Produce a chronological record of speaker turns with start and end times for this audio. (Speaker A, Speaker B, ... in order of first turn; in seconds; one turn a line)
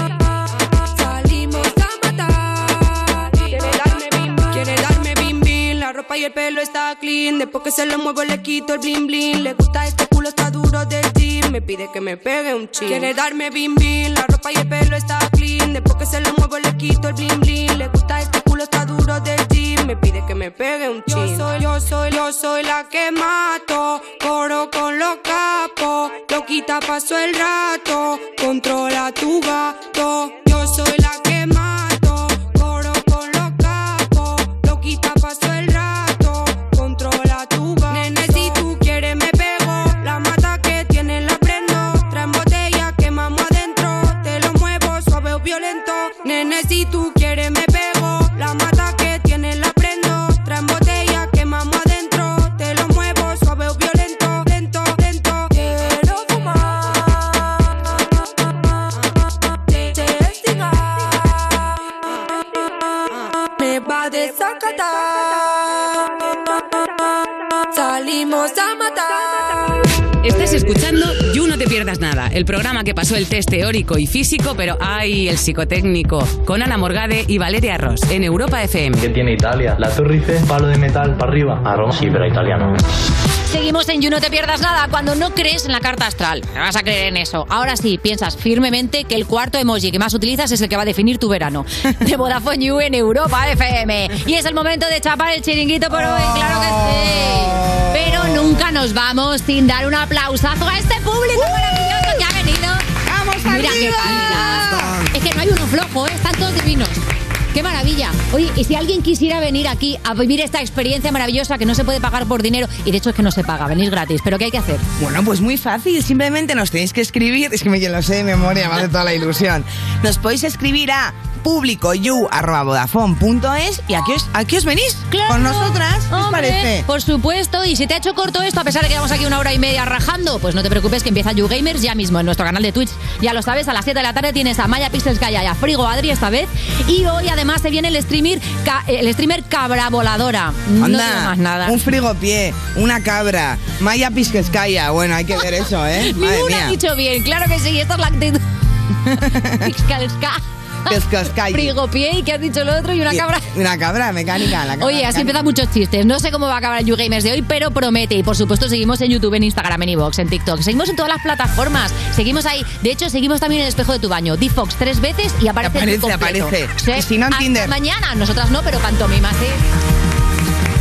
Speaker A: 0.9-57.2
Speaker A: 59.7-61.5
Speaker A: 63.6-66.7
Speaker A: 67.7-69.8
Speaker B: 70.2-79.1
Speaker C: 79.0-82.7
Speaker D: 83.5-102.8
Speaker E: 95.9-98.6
Speaker E: 101.3-102.2
Speaker E: 103.0-105.1
Speaker D: 103.4-107.0
Speaker D: 107.5-114.8
Speaker E: 115.0-126.8
Speaker D: 125.1-141.8
Speaker E: 140.8-146.8
Speaker D: 146.0-148.4
Speaker E: 149.1-149.7
Speaker D: 149.5-150.9
Speaker E: 150.9-151.7
Speaker D: 151.5-153.5
Speaker E: 153.1-155.4
Speaker D: 154.8-169.6
Speaker E: 165.6-167.7